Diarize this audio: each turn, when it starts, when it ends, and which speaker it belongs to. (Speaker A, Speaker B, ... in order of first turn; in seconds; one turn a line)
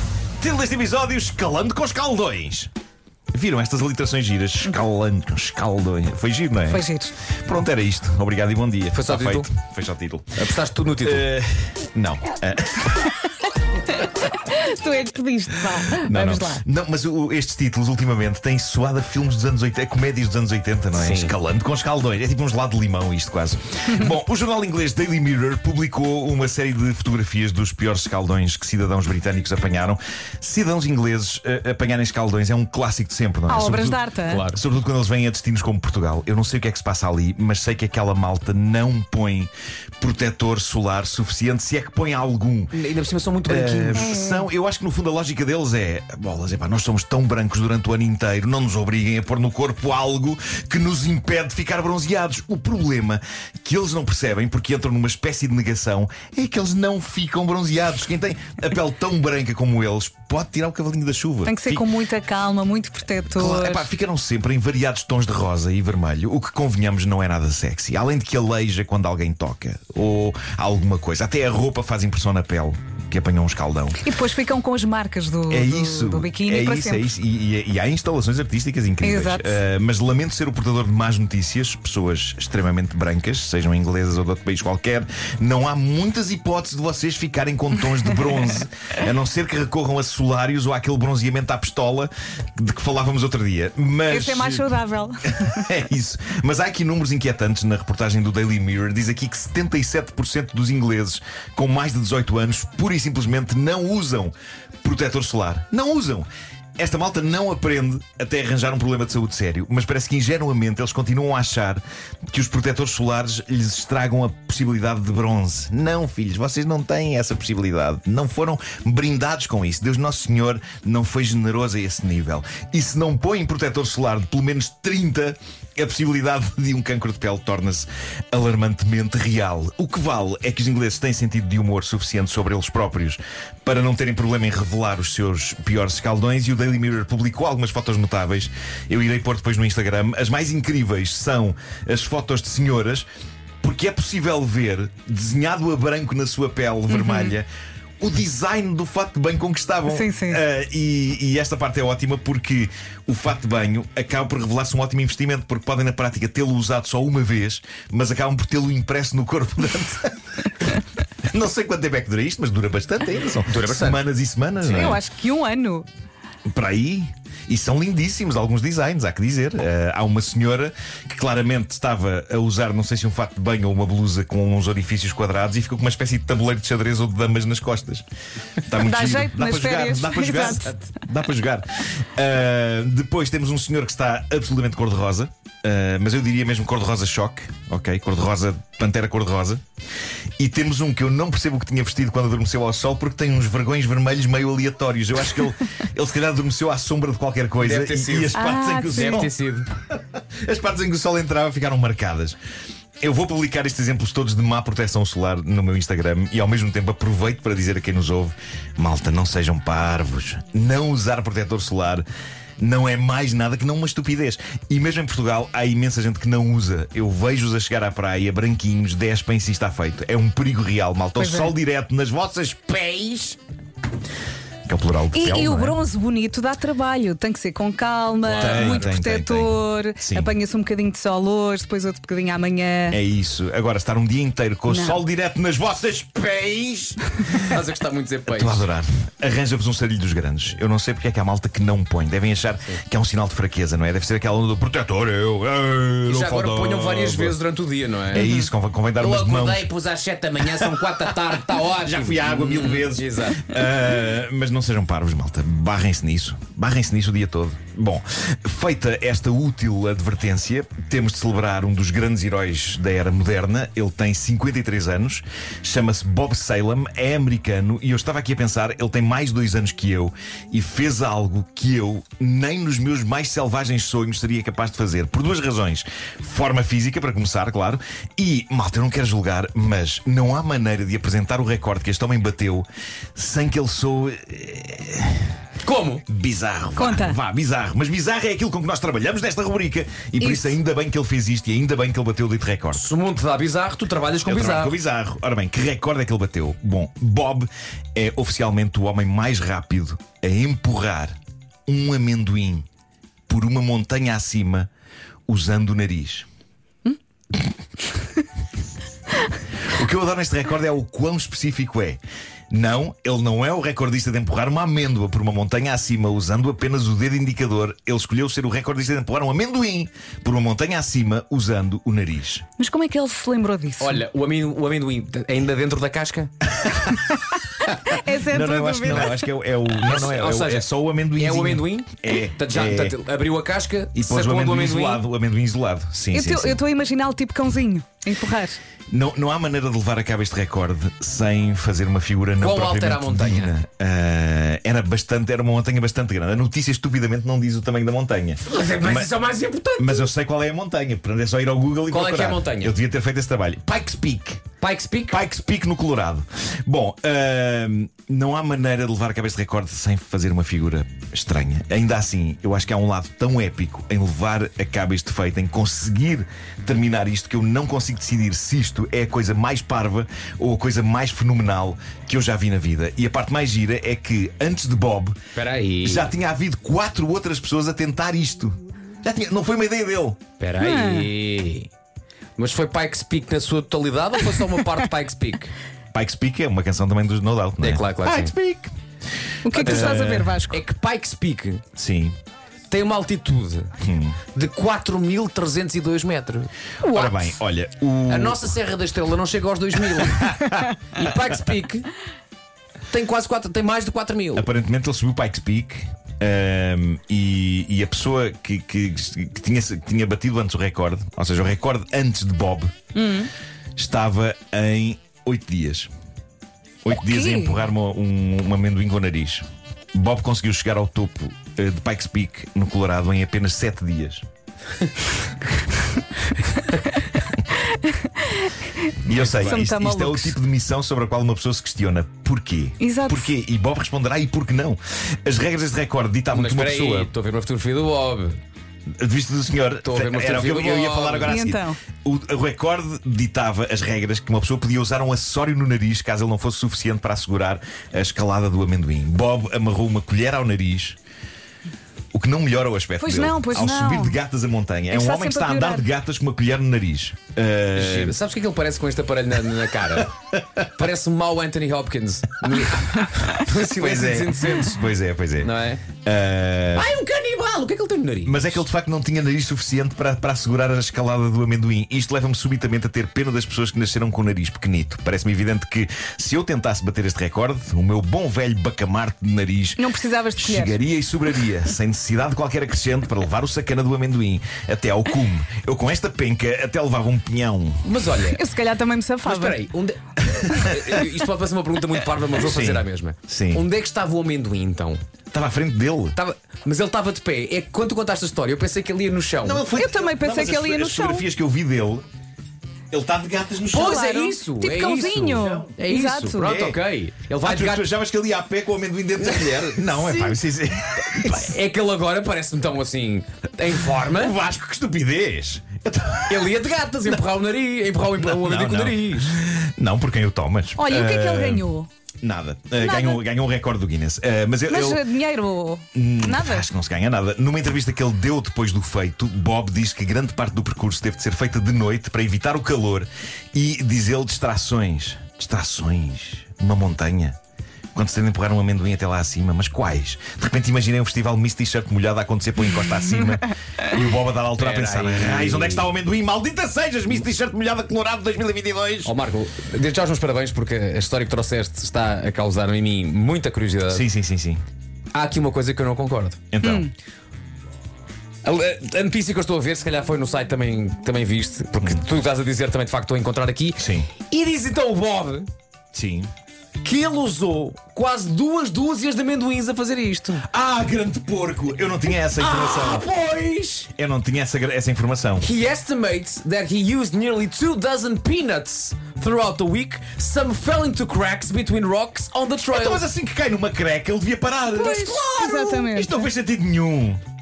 Speaker A: 0.4-2.7
Speaker A: 3.3-6.9
Speaker B: 6.7-7.1
Speaker A: 7.4-10.4
Speaker C: 8.9-9.5
Speaker C: 10.4-11.3
Speaker A: 11.0-13.1
Speaker B: 14.0-16.6
Speaker A: 16.0-42.7
Speaker C: 20.9-21.3
Speaker B: 33.5-34.4
Speaker C: 33.6-34.6
Speaker C: 42.7-44.1
Speaker A: 43.5-61.9
Speaker B: 44.0-44.5
Speaker B: 61.5-63.9
Speaker A: 63.3-74.0
Speaker B: 74.0-77.1
Speaker A: 75.5-94.7
Speaker B: 79.0-79.6
Speaker B: 94.1-95.7
Speaker A: 95.4-143.1
Speaker A: 143.6-147.5
Speaker B: 146.9-147.3
Speaker A: 148.0-160.7
Speaker B: 149.9-150.4
Speaker A: 161.3-165.0
Speaker C: 163.5-164.0
Speaker B: 164.6-165.9
Speaker A: 166.5-178.1
Speaker A: 178.7-189.6
Speaker B: 178.7-180.8
Speaker A: 190.4-199.3
Speaker C: 197.6-199.7
Speaker B: 198.3-199.3
Speaker A: 199.9-202.4
Speaker A: 203.0-212.1
Speaker A: 212.6-223.4
Speaker B: 221.2-221.5
Speaker A: 224.7-225.8
Speaker B: 225.1-233.0
Speaker C: 228.3-228.9
Speaker A: 228.3-230.3
Speaker A: 232.9-237.5
Speaker B: 234.7-235.0
Speaker C: 237.4-238.7
Speaker A: 238.3-247.4
Speaker C: 246.1-248.3
Speaker A: 248.1-249.7
Speaker B: 248.2-248.5
Speaker C: 249.0-253.5
Speaker A: 250.4-250.9
Speaker A: 251.8-285.3
Speaker C: 285.6-286.0
Speaker A: 286.1-292.9
Speaker B: 286.8-287.2
Speaker B: 290.2-290.6
Speaker C: 292.8-294.8
Speaker A: 294.2-301.1
Speaker A: 301.7-302.6
Speaker A: 303.3-304.7
Speaker A: 305.3-306.3
Speaker A: 309.7-312.0
Speaker A: 312.5-322.5
Speaker B: 322.6-324.0
Speaker C: 323.8-326.3
Speaker A: 326.6-327.0
Speaker B: 327.8-329.2
Speaker A: 328.2-333.0
Speaker C: 329.8-335.1
Speaker A: 333.9-336.6
Speaker B: 336.1-338.6
Speaker A: 338.9-349.1
Speaker C: 342.4-343.6
Speaker C: 348.4-350.1
Speaker A: 349.8-354.4
Speaker C: 351.9-352.8
Speaker C: 354.6-355.2
Speaker A: 355.1-375.2
Speaker C: 375.4-376.1
Speaker A: 375.8-380.2
Speaker C: 380.4-381.7
Speaker B: 380.6-381.1
Speaker C: 382.4-385.5
Speaker A: 385.9-388.7
Speaker C: 387.6-388.3
Speaker B: 389.4-390.6
Speaker A: 389.5-390.4
Speaker C: 389.5-391.6
Speaker A: 391.8-392.2
Speaker C: 392.7-393.7
Speaker A: 393.8-394.2
Speaker C: 394.3-396.5
Speaker B: 396.8-397.3
Speaker A: 396.8-398.5
Speaker C: 398.1-401.9
Speaker A: 399.9-400.7
Speaker C: 402.9-404.5
Speaker A: 404.4-412.7
Speaker B: 412.9-413.3
Speaker A: 413.8-415.9
Speaker A: 416.8-424.2
Speaker B: 416.9-417.6
Speaker B: 427.7-428.5
Speaker A: 429.0-437.1
Speaker C: 429.1-429.6
Speaker B: 429.4-430.4
Speaker B: 432.8-433.3
Speaker C: 436.3-438.4
Speaker A: 439.0-451.0
Speaker C: 439.8-441.4
Speaker B: 441.3-441.8
Speaker A: 452.1-458.2
Speaker B: 453.0-454.2
Speaker B: 454.9-455.9
Speaker C: 457.8-464.8
Speaker A: 463.7-466.9
Speaker C: 465.4-465.8
Speaker C: 466.8-468.6
Speaker A: 468.2-479.8
Speaker B: 479.8-480.8
Speaker A: 480.4-487.9
Speaker C: 487.8-488.4
Speaker B: 488.3-489.6
Speaker C: 489.2-495.0
Speaker A: 490.5-490.8
Speaker A: 492.4-493.6
Speaker A: 495.3-496.2
Speaker C: 496.1-499.6
Speaker A: 499.4-502.1
Speaker B: 499.7-501.3
Speaker A: 502.9-504.1
Speaker C: 503.7-507.9
Speaker B: 503.7-506.5
Speaker A: 505.4-505.8
Speaker A: 506.4-506.8
Speaker A: 507.4-511.6
Speaker C: 509.2-510.4
Speaker C: 511.0-514.4
Speaker A: 514.1-516.5
Speaker C: 516.3-519.4
Speaker A: 518.2-521.7
Speaker B: 520.8-521.9
Speaker A: 522.2-525.0
Speaker B: 522.8-523.2
Speaker B: 524.7-526.7
Speaker A: 525.9-537.4
Speaker A: 538.0-549.1
Speaker C: 544.6-545.9
Speaker C: 549.0-554.1
Speaker A: 553.9-554.6
Speaker C: 555.1-556.5
Speaker A: 556.5-556.9
Speaker B: 556.6-556.9
Speaker C: 558.4-565.5
Speaker A: 563.8-564.1
Speaker A: 565.9-566.3
Speaker C: 566.8-570.5
Speaker A: 570.5-573.1
Speaker C: 572.3-573.9
Speaker A: 573.9-575.5
Speaker C: 575.4-583.0
Speaker A: 582.7-587.2
Speaker C: 584.8-585.8
Speaker B: 584.8-586.3